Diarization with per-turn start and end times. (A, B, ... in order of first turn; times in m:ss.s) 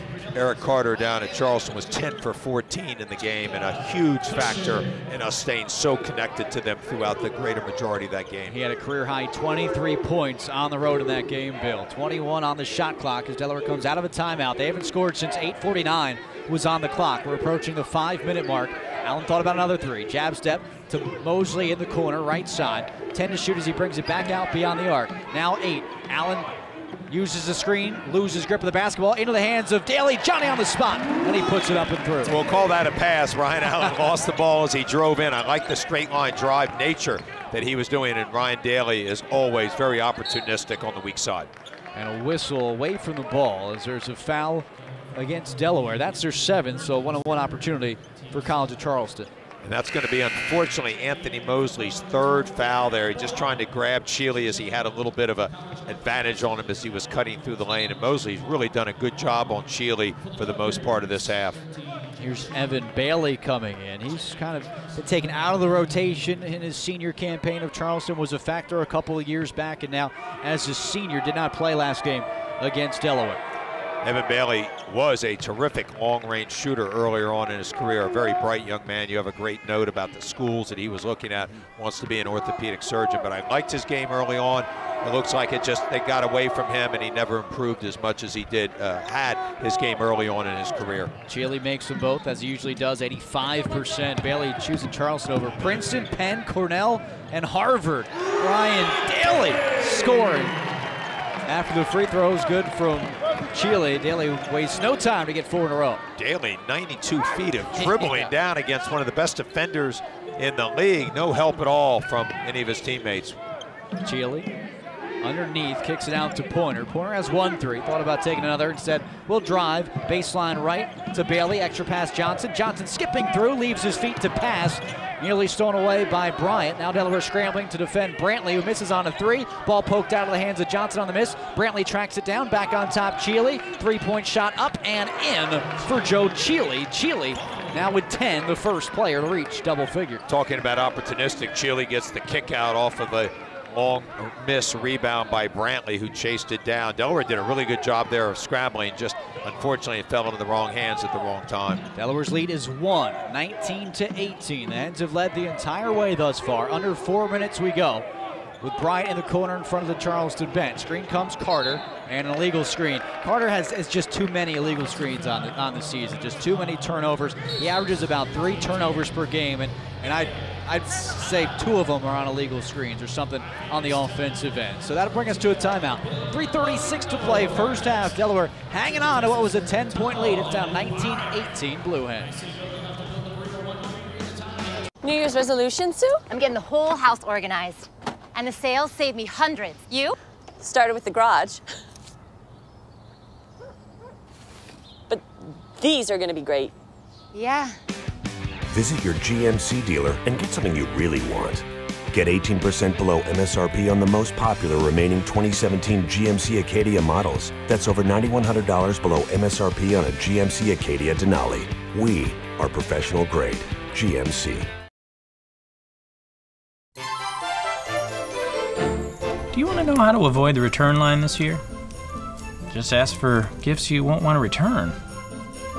0:00.3-0:08.6 A
0:08.5-0:26.5 B
0:27.1-0:32.4 B
0:32.2-0:41.5 A
0:41.9-0:49.3 B
0:49.6-1:01.6 A
1:02.2-1:13.4 B
1:14.0-1:31.1 A
1:31.3-1:40.6 B
1:41.4-1:46.0 B
1:46.2-1:53.4 A
1:47.7-1:48.3 B
1:54.0-1:54.5 B
1:55.2-2:20.2 B
2:20.3-2:31.8 A
2:31.9-2:38.0 B
2:38.6-3:02.4 B
3:05.0-3:06.2 C
3:06.3-3:10.2 D
3:10.6-3:11.6 C
3:15.1-3:16.7 C
3:17.3-3:17.8 D
3:18.7-3:34.7 E
3:39.5-3:41.6 F
3:42.7-3:45.0 F